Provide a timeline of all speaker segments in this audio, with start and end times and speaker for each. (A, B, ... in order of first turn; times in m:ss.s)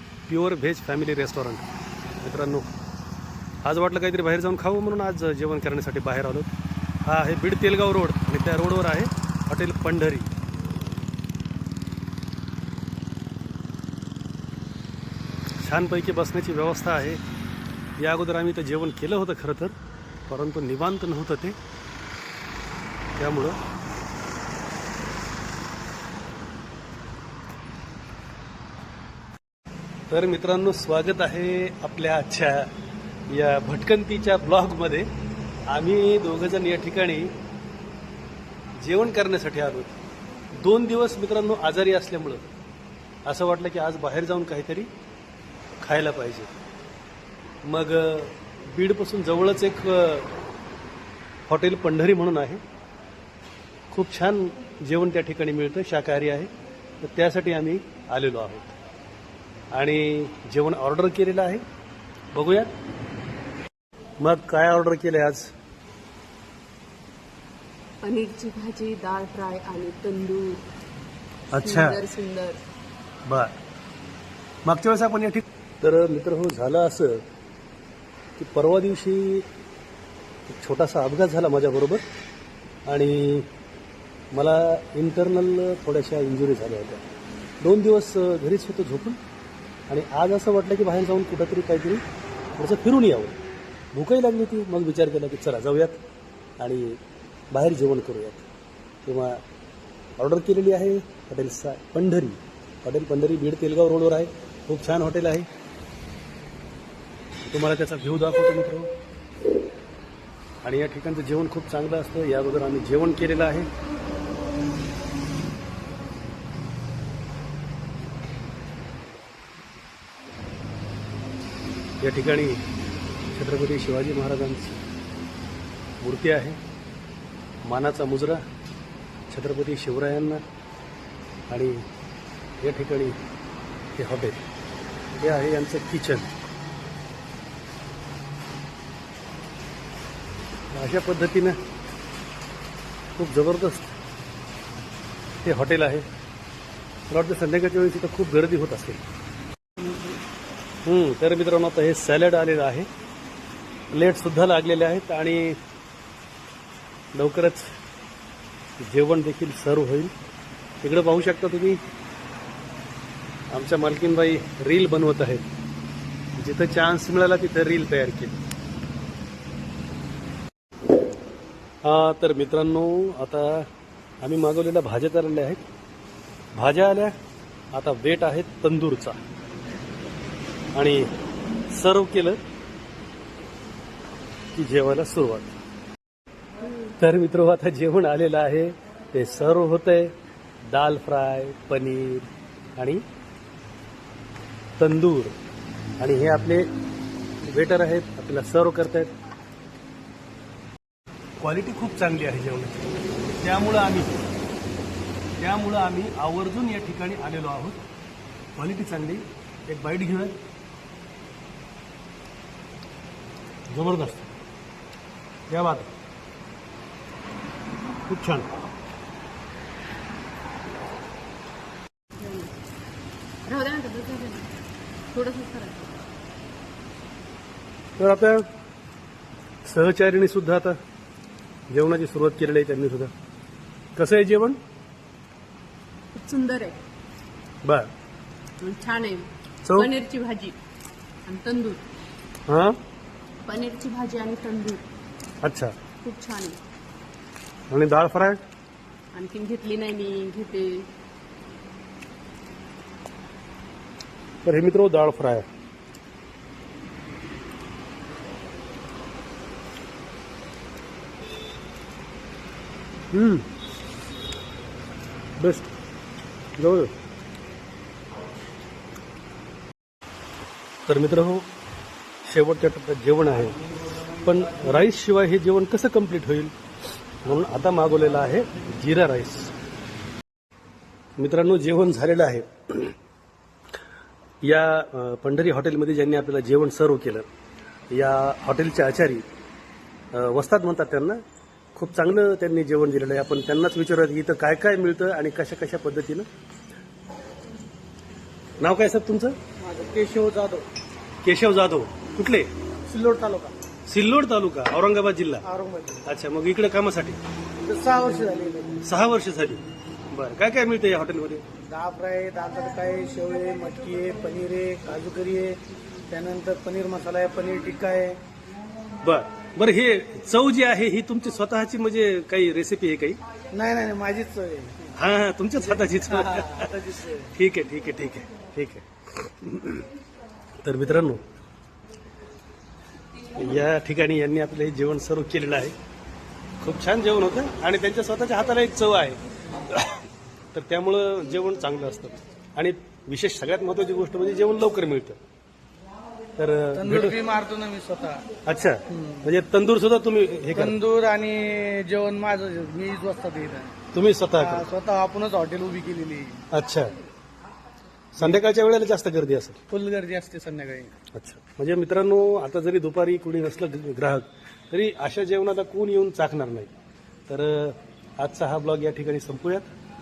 0:00.3-0:01.7 A
0:02.2-0:02.7 A
0:03.6-0:06.5 A
0:07.0-0:10.3 A
0:15.6-0:17.2 A
0:18.0-0:19.8 A
0:20.3-0:21.6 A
0:23.2-0:23.6 A
0:30.1-0:32.7 A
0:33.3-0:35.1 A
0:35.7-0:37.3 A
0:38.8-0:40.0 A
0:40.6-0:42.5 A
0:43.3-0:44.9 A
0:45.8-0:46.5 A
0:47.6-0:50.3 A
0:51.5-0:52.6 A
0:53.9-0:56.5 A
0:57.0-0:58.7 A
0:59.7-1:01.6 A
1:02.3-1:02.7 A
1:04.2-1:05.5 A
1:08.0-1:10.6 B
1:11.5-1:12.0 A
1:11.6-1:12.6 B
1:13.3-1:13.6 A
1:14.6-1:17.2 A
1:18.4-1:19.5 A
1:20.5-1:22.0 A
1:22.9-1:23.5 A
1:24.3-1:27.1 A
1:27.6-1:29.2 A
1:29.9-1:32.0 A
1:32.6-1:33.4 A
1:33.9-1:36.0 A
1:36.6-1:37.0 A
1:37.5-1:38.5 A
1:39.0-1:39.4 A
1:40.2-1:45.5 A
1:47.5-1:48.9 A
1:50.6-1:53.7 A
2:02.0-2:02.6 A
2:03.3-2:04.8 A
2:06.0-2:06.6 A
2:07.6-2:08.4 A
2:09.3-2:10.4 A
2:11.5-2:11.9 A
2:12.6-2:13.2 A
2:14.0-2:14.4 A
2:15.2-2:16.3 A
2:20.7-2:21.6 A
2:23.2-2:23.9 A
2:25.4-2:26.1 A
2:27.1-2:29.0 A
2:30.8-2:32.9 A
2:33.9-2:35.6 A
2:37.2-2:37.7 A
2:38.8-2:40.1 A
2:40.8-2:41.8 A
2:43.5-2:45.4 A
2:46.4-2:48.4 A
2:51.8-2:53.7 A
2:54.2-2:55.6 A
2:56.6-2:57.2 A
2:57.7-2:59.2 A
3:00.8-3:01.1 A
3:01.7-3:02.4 A
3:04.6-3:05.6 A
3:06.9-3:10.1 A
3:10.6-3:13.0 A
3:14.8-3:15.4 A
3:16.0-3:16.7 A
3:17.4-3:19.1 A
3:21.4-3:22.8 A
3:23.4-3:24.2 A
3:25.4-3:27.8 A
3:28.6-3:30.4 A
3:33.7-3:34.3 A
3:35.5-3:35.9 A
3:38.1-3:38.5 A
3:42.2-3:42.6 B
3:43.5-3:44.5 B
3:45.1-3:45.9 B
3:48.0-3:48.5 A
3:49.6-3:50.8 A
3:51.7-3:53.1 A
3:54.0-3:54.6 A
3:56.1-3:56.8 B
3:57.6-3:57.9 A
3:58.6-4:00.6 B
3:59.6-3:59.9 A
4:01.3-4:01.8 B
4:02.5-4:02.8 A
4:03.5-4:04.8 B
4:05.4-4:05.8 A
4:06.0-4:06.6 B
4:07.7-4:08.4 A
4:09.1-4:10.9 B
4:14.4-4:15.5 A
4:23.1-4:23.5 A
4:25.4-4:25.7 A
4:26.6-4:26.9 A
4:30.9-4:31.5 A
4:32.2-4:33.6 A
4:34.2-4:36.5 A
4:37.2-4:39.5 A
4:41.2-4:42.9 A
4:44.4-4:47.2 A
4:47.9-4:49.2 A
4:50.1-4:51.2 A
4:51.8-4:56.3 A
4:58.6-4:59.4 A
4:59.6-5:00.7 C
5:01.2-5:02.5 A
5:02.9-5:03.6 C
5:03.9-5:05.5 A
5:05.4-5:06.1 C
5:06.0-5:07.2 A
5:07.6-5:08.8 C
5:08.8-5:11.4 A
5:11.6-5:18.2 C
5:19.0-5:23.2 A
5:23.5-5:24.9 C
5:24.9-5:29.8 A
5:25.7-5:27.2 C
5:30.6-5:31.2 A
5:33.4-5:35.8 A
5:36.6-5:45.2 A
5:46.4-5:47.2 A
5:46.7-5:48.2 C
5:48.4-5:50.8 A
5:48.9-5:49.2 C
5:50.5-5:53.8 C
5:53.9-5:54.6 A
5:54.4-5:56.4 C
5:56.5-5:56.9 A
5:58.2-5:59.6 A
5:59.7-6:00.9 C
6:01.2-6:06.7 A
6:07.3-6:09.7 A